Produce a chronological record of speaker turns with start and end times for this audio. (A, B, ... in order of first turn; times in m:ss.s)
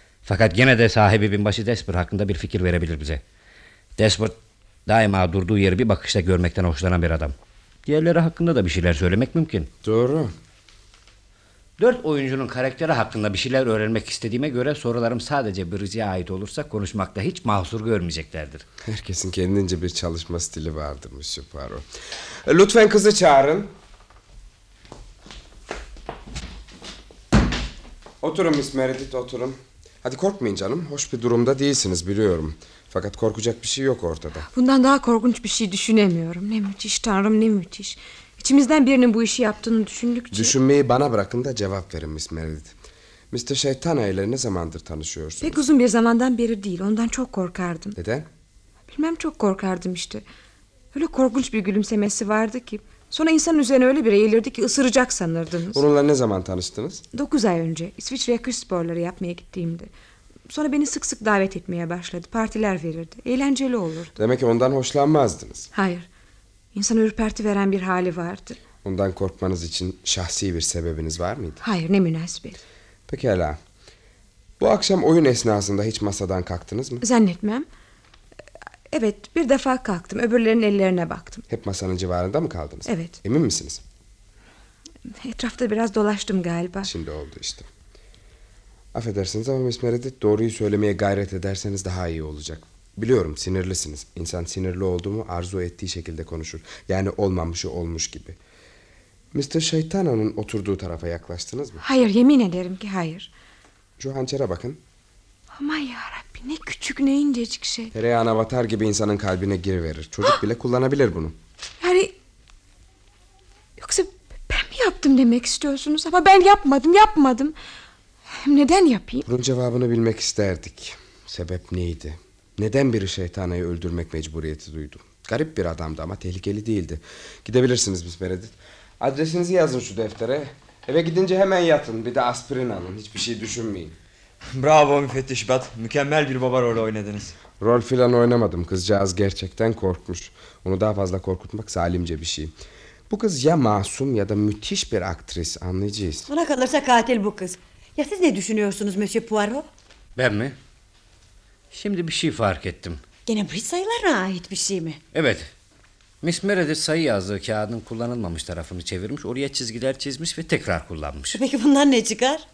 0:00.2-0:03.2 A
0:04.0-0:07.3 A
0:07.8-0:09.7 A
0:09.8-0:10.3 B
0:11.8-0:18.6 A
0:18.8-0:21.8 B
0:22.4-0:23.7 B
0:28.2-0:34.5 B
0:34.5-0:40.5 C
0:40.3-0:42.7 B
0:43.3-0:45.6 B
0:45.4-0:48.0 C
0:48.0-0:48.2 B
0:48.9-0:50.2 C
0:50.9-0:55.8 C
0:55.7-0:57.0 B
0:57.1-0:59.9 C
1:00.5-1:04.1 C
1:04.2-1:05.7 B
1:05.7-1:06.1 C
1:06.7-1:08.6 C
1:08.8-1:11.6 B
1:11.6-1:12.6 C
1:13.1-1:13.6 B
1:14.6-1:17.0 B
1:17.0-1:17.7 C
1:18.9-1:21.4 C
1:21.5-1:23.8 B
1:22.8-1:23.2 C
1:25.1-1:26.9 C
1:26.8-1:27.7 B
1:28.9-1:38.4 B
1:39.3-1:41.8 B
1:41.8-1:43.3 C
1:44.0-1:44.8 B
1:45.5-1:47.9 C
1:47.9-1:51.4 B
1:51.8-1:52.1 C
1:53.8-1:57.6 C
1:58.3-1:59.2 C
1:59.2-2:14.0 B
2:14.5-2:17.4 D
2:17.6-2:22.5 B
2:23.1-2:26.3 B
2:26.3-2:29.7 E
2:30.2-2:30.6 A
2:31.7-2:33.0 A
2:33.2-2:35.0 E
2:35.1-2:35.5 A
2:36.2-2:41.4 A
2:41.3-2:42.4 E